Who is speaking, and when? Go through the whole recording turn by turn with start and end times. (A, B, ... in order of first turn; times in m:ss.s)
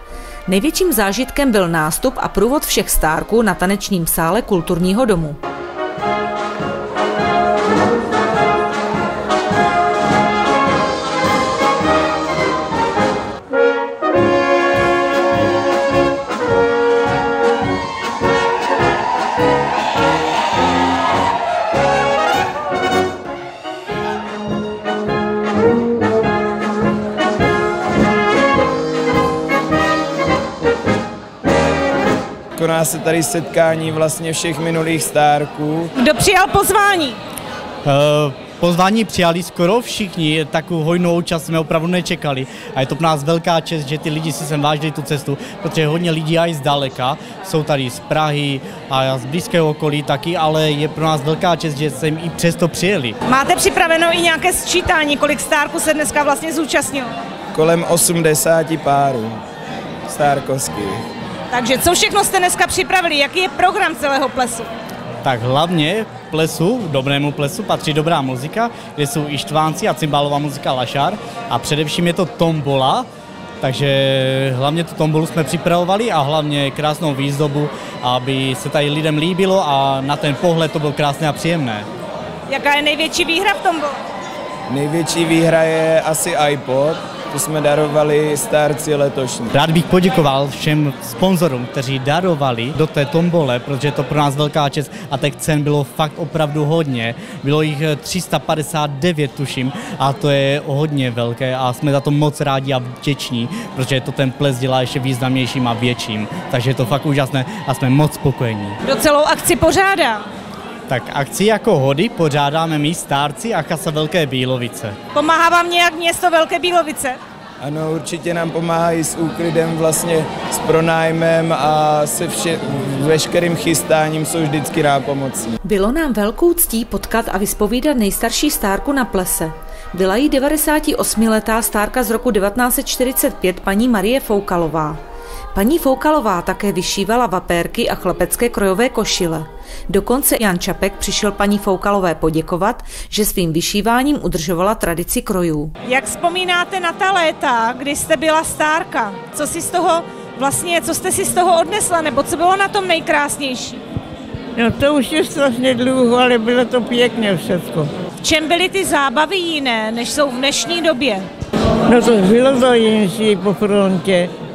0:00.5-0:05.4 A
0:32.6-0:35.9 B
0:36.0-0:37.2 C
0:37.8-0:53.2 D
0:53.2-0:57.1 C
0:57.5-0:59.4 B
1:00.1-1:01.0 B
1:01.5-1:04.7 C
1:05.2-1:13.0 D
1:13.6-1:21.9 D
1:22.5-1:24.0 C
1:24.7-1:29.5 B
1:29.5-1:48.8 D
1:48.8-1:50.2 C
1:50.9-1:55.0 D
1:55.1-1:57.2 C
1:57.6-2:05.5 B
2:05.6-2:15.0 A
2:15.5-2:25.7 A
2:25.8-2:33.8 C
2:34.6-2:37.9 E
2:38.2-2:41.3 C
2:41.8-2:44.3 E